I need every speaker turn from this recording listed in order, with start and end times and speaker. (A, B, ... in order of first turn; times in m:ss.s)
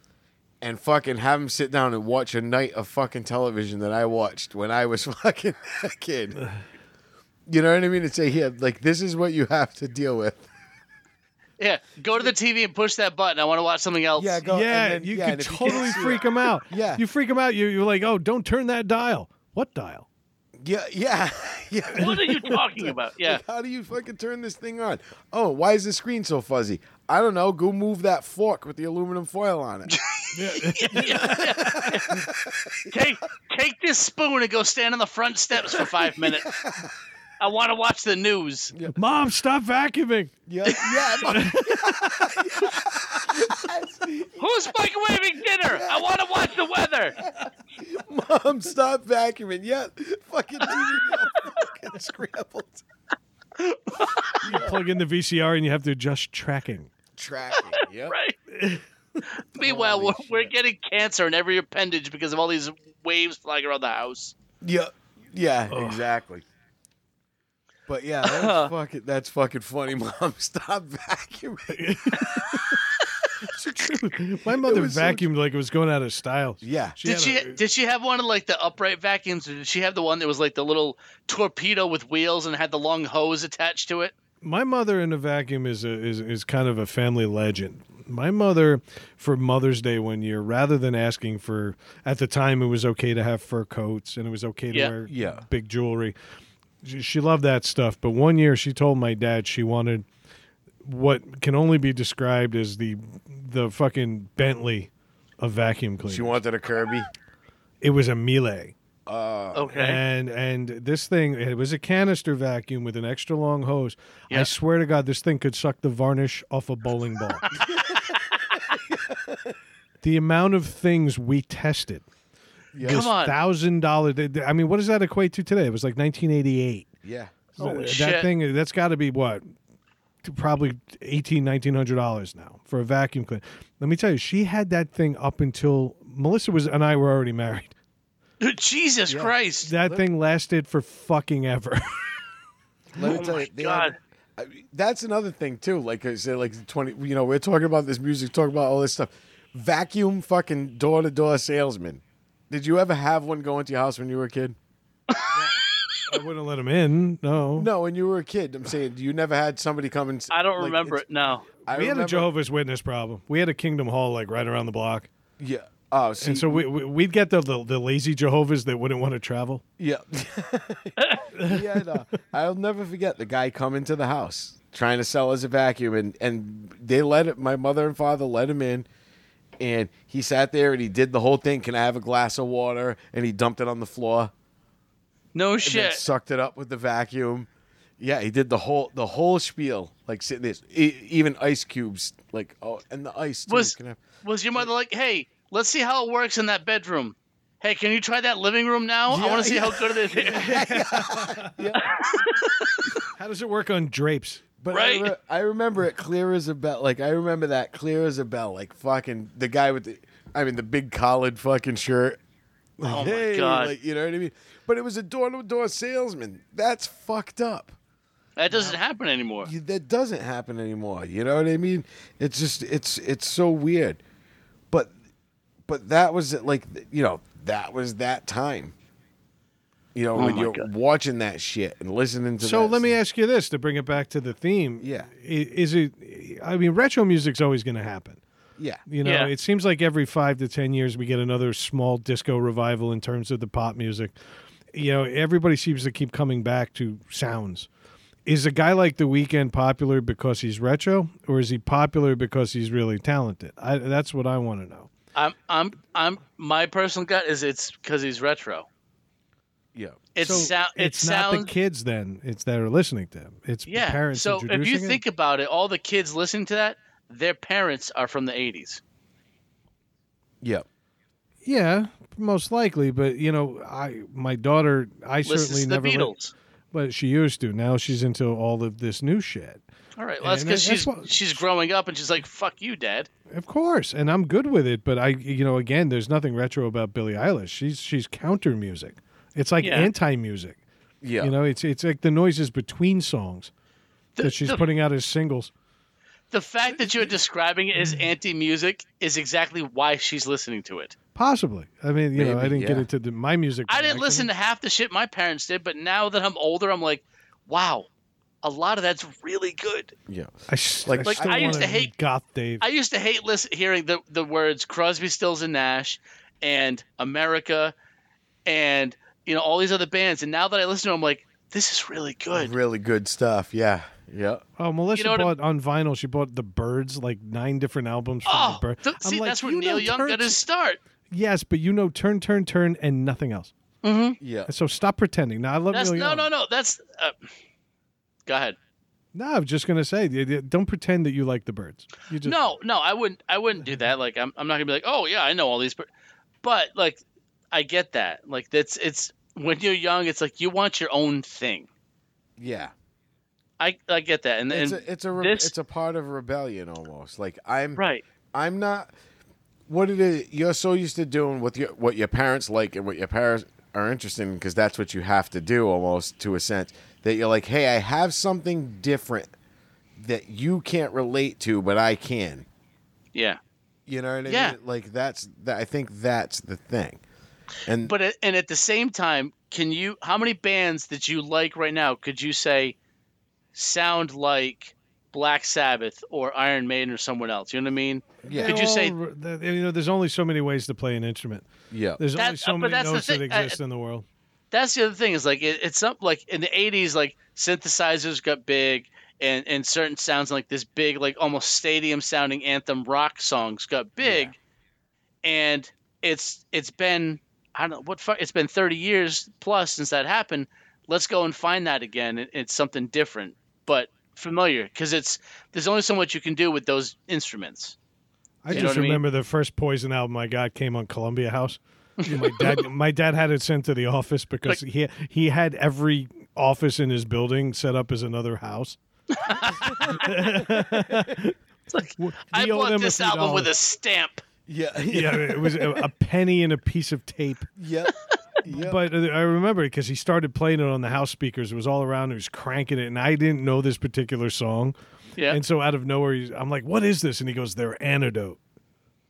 0:00.6-0:06.4 A
0:07.5-0:10.5 A
0:11.6-0:14.4 B
0:14.2-0:17.0 A
0:14.4-0:20.0 C
0:20.6-0:30.0 A
0:21.9-0:23.4 B
0:29.9-0:32.2 B
0:30.3-0:32.0 C
0:30.9-0:33.1 A
0:32.9-0:36.5 B
0:35.7-0:36.9 A
0:37.4-0:38.7 B
0:38.9-0:40.3 C
0:40.5-0:44.7 A
0:41.2-0:42.7 C
0:44.4-0:47.2 B
0:45.6-0:46.6 A
0:47.2-0:52.8 A
0:50.7-0:51.1 B
0:53.7-0:54.6 B
0:54.4-0:54.8 A
0:54.4-0:56.9 C
0:57.2-0:58.2 A
0:57.7-0:58.4 B
0:58.5-0:58.8 C
0:59.3-1:04.3 B
0:59.6-1:00.5 A
1:04.6-1:06.4 A
1:05.7-1:06.0 C
1:07.9-1:12.6 A
1:08.2-1:08.7 B
1:11.7-1:12.8 C
1:12.2-1:13.2 B
1:13.5-1:17.6 C
1:13.5-1:15.3 A
1:16.6-1:17.0 A
1:17.0-1:24.1 B
1:24.4-1:36.1 C
1:35.0-1:35.4 A
1:36.8-1:40.0 C
1:40.8-1:46.4 C
1:46.0-1:47.1 A
1:47.8-1:48.7 C
1:49.0-1:49.7 A
1:49.5-1:50.0 B
1:49.7-1:57.6 C
1:57.5-1:58.8 B
1:57.6-1:59.6 A
2:00.0-2:02.0 C
2:02.7-2:03.1 A
2:02.8-2:06.9 C
2:02.9-2:03.3 B
2:07.0-2:07.6 A
2:07.6-2:09.4 C
2:07.6-2:08.3 B
2:10.2-2:17.7 C
2:18.4-2:19.7 B
2:19.1-2:20.0 A
2:19.6-2:22.2 C
2:22.9-2:34.6 A
2:23.0-2:24.0 B
2:35.1-2:36.1 B
2:36.1-2:37.7 C
2:37.6-2:41.0 A
2:40.3-2:41.4 B
2:41.6-2:42.3 A
2:41.6-2:45.1 C
2:45.4-2:46.6 A
2:46.2-2:49.6 C
2:49.8-2:58.9 A
2:51.0-2:51.3 B
2:51.4-2:51.7 C
2:59.6-3:04.3 A
3:05.3-3:06.0 B
3:05.6-3:14.0 A
3:13.5-3:20.5 B
3:19.1-3:22.0 A
3:20.3-3:21.7 C
3:21.7-3:23.0 B
3:23.1-3:24.4 C
3:24.6-3:32.2 A
3:24.7-3:25.1 B
3:32.8-3:37.8 A
3:32.8-3:33.7 B
3:38.4-3:39.5 B
3:38.5-3:38.8 A
3:39.4-3:44.0 A
3:45.6-3:48.7 A
3:49.9-3:52.9 A
3:50.1-3:50.7 B
3:52.4-3:58.2 C
3:54.8-3:55.1 A
3:58.9-4:04.1 C
3:59.0-3:59.3 B
4:04.7-4:07.7 C
4:08.2-4:14.9 C
4:15.1-4:18.7 B
4:19.7-4:20.0 A
4:20.1-4:21.5 B
4:20.2-4:25.0 C
4:23.6-4:28.8 B
4:31.4-4:36.1 C
4:35.2-4:36.3 B
4:36.7-4:39.6 C
4:40.0-4:43.1 B
4:40.2-4:41.4 C
4:43.3-4:50.6 C
4:49.6-4:49.9 B
4:51.0-4:51.3 A
4:51.2-4:53.5 C
4:54.2-4:54.6 B
4:54.2-4:55.5 C
4:56.3-5:00.9 B
4:57.8-4:58.1 C
5:01.1-5:04.3 C
5:02.1-5:02.9 A
5:03.7-5:07.9 B
5:08.4-5:09.9 B
5:10.1-5:10.3 A
5:10.5-5:12.6 C
5:10.8-5:11.7 A
5:11.0-5:11.9 B
5:12.6-5:17.7 B
5:18.4-5:22.5 B
5:22.3-5:24.4 A
5:24.6-5:30.4 C
5:24.9-5:25.3 B
5:28.2-5:30.8 B
5:31.1-5:33.5 C
5:33.8-5:34.2 B
5:34.2-5:34.5 A
5:34.5-5:36.3 C
5:35.7-5:37.2 B
5:38.3-5:38.6 B
5:39.1-5:42.4 C
5:42.2-5:45.9 B
5:46.4-5:51.7 B
5:52.4-5:52.7 A
5:53.6-5:55.5 B
5:54.5-5:57.8 A
5:57.8-5:58.0 B
5:58.3-5:58.9 A
5:59.7-6:09.3 A
6:10.0-6:12.4 A
6:13.1-6:13.4 B
6:13.8-6:17.0 A
6:14.2-6:14.6 B
6:17.6-6:17.9 A
6:17.8-6:22.8 B
6:23.5-6:28.9 B
6:28.2-6:28.6 A
6:28.3-6:31.5 C
6:31.7-6:32.0 A
6:32.0-6:34.0 C
6:32.1-6:33.6 B
6:34.5-6:44.3 B
6:44.0-6:44.3 A
6:45.2-6:57.8 B
6:58.4-7:08.8 C
6:58.5-6:58.8 A
6:58.5-6:59.0 B
7:02.0-7:02.7 B
7:09.1-7:10.1 B
7:09.8-7:11.2 A
7:09.8-7:11.4 C
7:11.7-7:14.2 B
7:12.0-7:13.5 C
7:14.5-7:15.8 A
7:14.9-7:17.5 C
7:17.6-7:18.8 A
7:18.4-7:24.7 C
7:25.2-7:28.4 C